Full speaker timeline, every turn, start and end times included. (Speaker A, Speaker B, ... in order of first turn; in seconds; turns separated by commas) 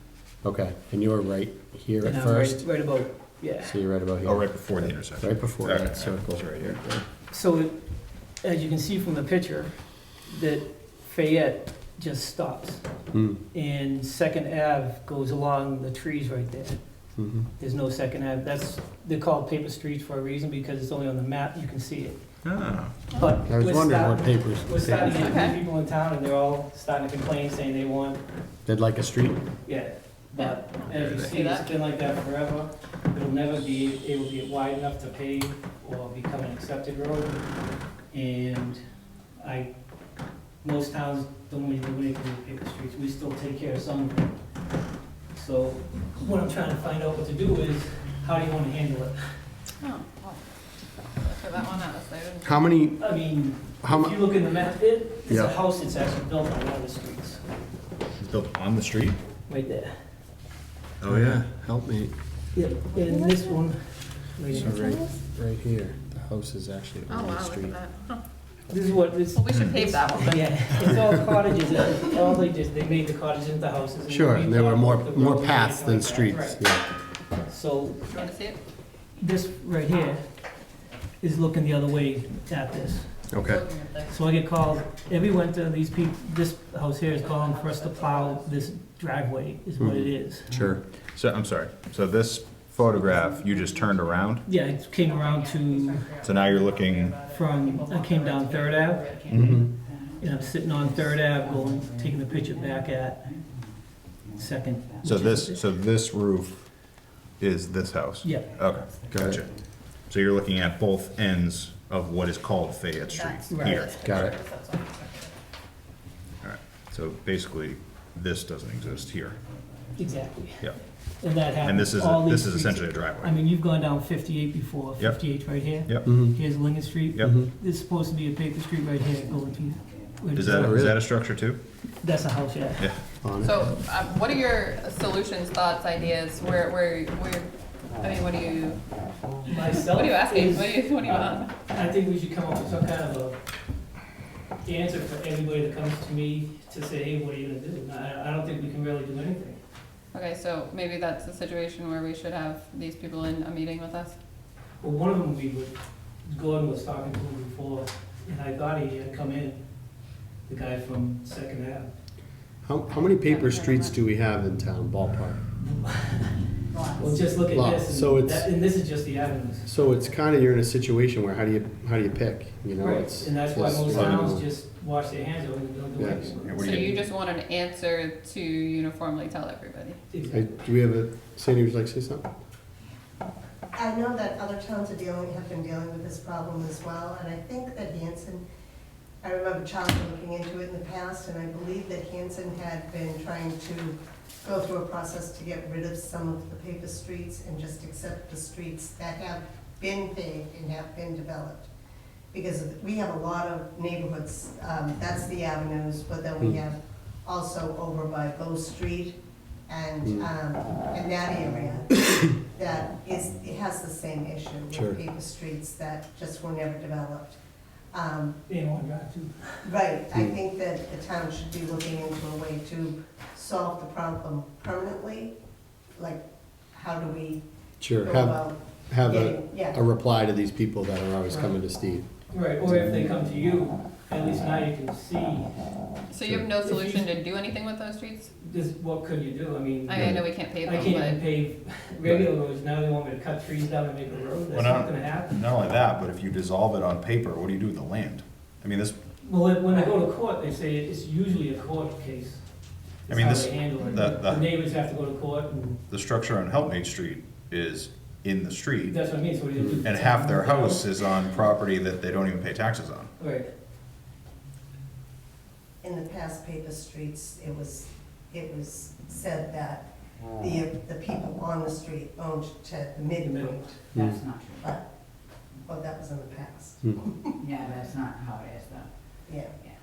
Speaker A: 0.4-2.6, Speaker B: 2.0-3.8, Speaker A: 3.6-4.7, Speaker C: 4.2-6.9, Speaker A: 5.2-7.0, Speaker B: 7.3-7.8, Speaker B: 8.4-12.8, Speaker A: 13.1-13.4, Speaker B: 13.5-16.8, Speaker A: 17.2-17.5, Speaker B: 17.6-22.2, Speaker C: 22.4-22.9, Speaker B: 23.1-28.2, Speaker A: 23.5-25.5, Speaker D: 25.1-25.6, Speaker A: 28.6-29.4, Speaker B: 29.6-37.4, Speaker D: 30.4-31.7, Speaker C: 30.9-31.3, Speaker B: 38.1-38.8, Speaker B: 39.4-39.7, Speaker B: 40.6-44.3, Speaker B: 45.3-49.3, Speaker D: 49.8-50.4, Speaker D: 51.2-52.7, Speaker A: 52.4-53.1, Speaker B: 53.0-57.4, Speaker A: 53.8-54.2, Speaker A: 55.3-55.5, Speaker C: 58.2-59.2, Speaker B: 59.5-60.0, Speaker C: 61.0-61.4, Speaker A: 61.1-62.1, Speaker B: 62.5-64.8, Speaker D: 62.9-63.5, Speaker A: 64.5-67.8, Speaker D: 64.6-65.0, Speaker D: 67.1-68.2, Speaker B: 68.7-76.6, Speaker D: 69.3-70.7, Speaker A: 74.1-76.9, Speaker B: 77.5-78.1, Speaker D: 78.1-78.6, Speaker B: 79.2-80.2, Speaker B: 81.2-83.1, Speaker A: 83.3-83.6, Speaker D: 83.4-84.1, Speaker B: 84.1-90.5, Speaker D: 87.5-87.9, Speaker A: 89.8-90.8, Speaker C: 91.1-94.4, Speaker B: 94.4-96.1, Speaker D: 95.5-96.1, Speaker C: 96.2-97.2, Speaker D: 96.9-97.3, Speaker B: 97.3-99.1, Speaker D: 98.0-98.3, Speaker C: 99.3-99.6, Speaker E: 99.3-100.4, Speaker A: 99.3-99.7, Speaker B: 100.2-103.2, Speaker E: 101.1-101.5, Speaker B: 104.4-105.6, Speaker C: 105.0-106.6, Speaker C: 107.4-109.5, Speaker B: 108.2-108.5, Speaker A: 109.1-109.4, Speaker C: 110.1-114.3, Speaker D: 113.1-115.3, Speaker B: 113.5-113.8, Speaker A: 114.0-114.3, Speaker C: 116.4-119.4, Speaker B: 120.0-130.8, Speaker C: 121.6-123.4, Speaker C: 125.0-126.1, Speaker A: 126.1-126.4, Speaker A: 127.2-127.5, Speaker C: 130.3-131.6, Speaker A: 130.4-131.0, Speaker B: 132.0-132.9, Speaker A: 133.2-133.8, Speaker D: 133.4-138.8, Speaker B: 139.5-140.8, Speaker D: 139.7-141.5, Speaker B: 141.7-143.4, Speaker B: 144.7-149.6, Speaker D: 150.1-154.2, Speaker B: 154.8-155.7, Speaker B: 156.3-159.6, Speaker B: 160.5-161.9, Speaker A: 162.6-165.4, Speaker D: 162.9-163.9, Speaker B: 165.6-166.4, Speaker B: 167.0-169.7, Speaker A: 167.5-168.5, Speaker A: 169.7-174.5, Speaker B: 172.8-176.6, Speaker C: 173.9-174.3, Speaker A: 176.0-176.3, Speaker C: 176.4-177.0, Speaker D: 176.6-180.0, Speaker B: 180.1-180.5, Speaker A: 180.3-182.3, Speaker F: 183.8-188.4, Speaker F: 189.2-201.7, Speaker F: 202.3-217.4, Speaker A: 210.0-210.3, Speaker A: 214.7-215.0, Speaker F: 217.9-218.4, Speaker B: 218.5-219.7, Speaker F: 219.6-225.3, Speaker F: 226.0-227.4, Speaker A: 227.8-232.1, Speaker F: 228.0-229.8, Speaker B: 231.3-231.6, Speaker B: 232.3-235.6, Speaker D: 236.1-238.3, Speaker B: 236.6-237.2, Speaker B: 238.4-245.3, Speaker D: 239.9-241.2, Speaker A: 240.0-240.2, Speaker C: 244.5-249.0, Speaker B: 249.2-252.4, Speaker B: 253.1-255.8, Speaker C: 253.1-254.5, Speaker C: 255.9-259.0, Speaker B: 258.9-260.9, Speaker C: 259.7-263.1, Speaker B: 263.2-263.5, Speaker F: 265.8-273.9, Speaker B: 273.2-273.6, Speaker A: 273.9-274.2, Speaker E: 274.0-274.6, Speaker F: 274.6-274.9, Speaker F: 275.6-277.4, Speaker E: 277.4-278.9, Speaker F: 279.3-279.6